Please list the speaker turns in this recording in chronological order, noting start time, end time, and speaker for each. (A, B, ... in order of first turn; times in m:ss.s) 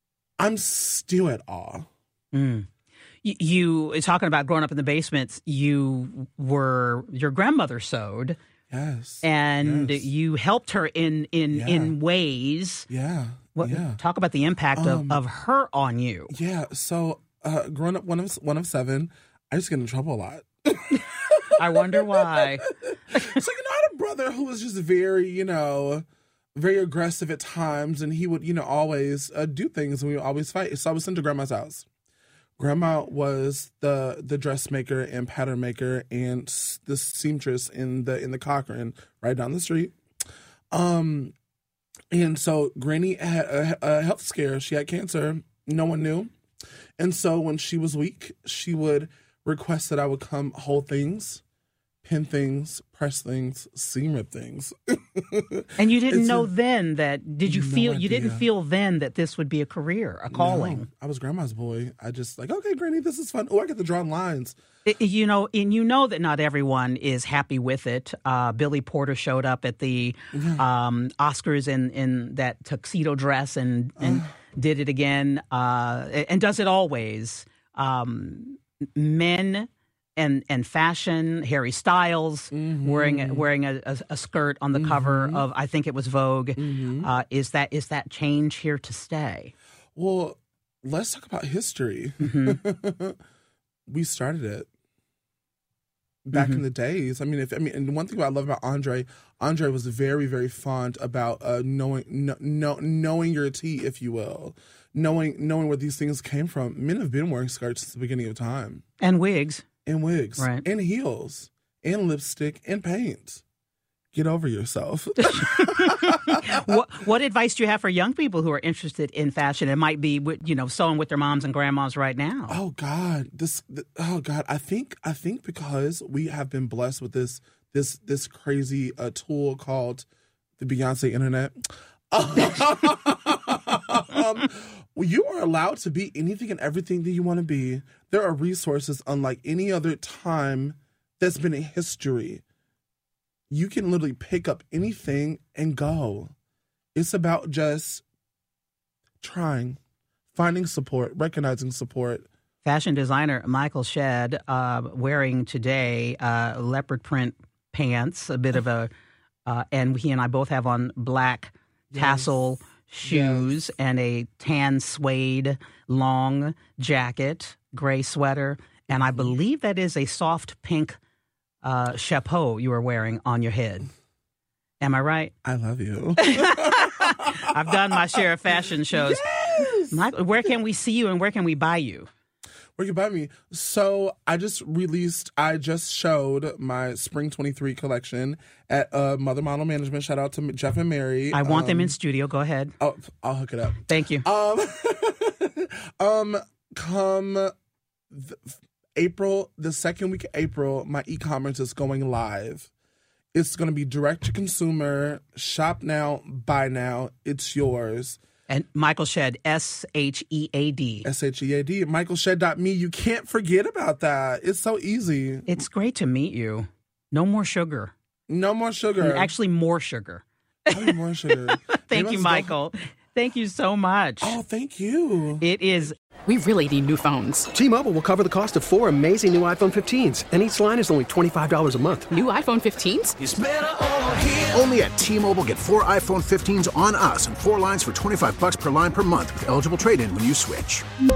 0:00.4-0:01.9 A
0:02.3-0:02.7 B
0:03.2-0:08.4 B
0:08.7-0:10.1 A
0:09.2-0:12.9 B
0:11.5-0:12.0 A
0:12.9-0:14.0 A
0:13.6-0:16.3 B
0:14.7-0:15.2 A
0:16.3-0:26.0 A
0:21.6-0:23.3 B
0:26.5-0:31.8 A
0:32.6-0:39.9 A
0:40.7-0:41.3 A
0:42.1-0:46.3 A
0:47.0-0:51.4 A
0:52.0-0:56.5 A
0:55.8-1:00.9 B
0:57.4-0:58.4 A
1:00.3-1:04.6 A
1:04.8-1:29.5 B
1:10.3-1:10.6 A
1:14.0-1:14.3 A
1:22.5-1:23.5 A
1:24.7-1:25.4 A
1:26.6-1:27.1 A
1:29.9-1:33.2 A
1:32.2-1:32.6 B
1:33.9-1:34.7 A
1:36.3-1:48.8 A
1:36.3-1:36.6 B
1:49.0-1:49.6 B
1:49.8-1:53.4 A
1:50.4-1:50.6 B
1:54.1-1:56.3 A
1:55.2-2:02.6 B
2:02.5-2:10.1 A
2:10.6-2:11.6 A
2:12.1-2:22.4 A
2:23.5-2:26.3 A
2:26.9-2:28.0 A
2:29.2-2:29.8 A
2:30.3-2:32.3 A
2:32.6-2:38.9 B
2:39.4-2:51.0 B
2:41.9-2:42.3 A
2:43.0-2:43.6 A
2:51.6-2:53.9 B
2:54.8-2:55.3 B
2:55.4-2:57.3 A
2:56.2-2:59.2 B
2:58.9-3:00.0 A
2:59.9-3:02.1 B
3:02.8-3:12.0 A
3:11.3-3:12.7 B
3:12.8-3:17.5 A
3:13.9-3:14.2 B
3:18.1-3:22.7 A
3:23.3-3:28.2 A
3:28.5-3:31.1 B
3:31.0-3:35.6 A
3:35.5-3:37.9 B
3:38.3-3:39.3 A
3:39.0-3:40.9 B
3:40.7-3:42.5 A
3:41.5-3:44.4 B
3:44.2-3:45.4 A
3:45.4-3:45.9 B
3:46.3-3:47.5 C
3:47.5-3:52.1 D
3:52.1-3:53.2 C
3:54.1-4:00.8 E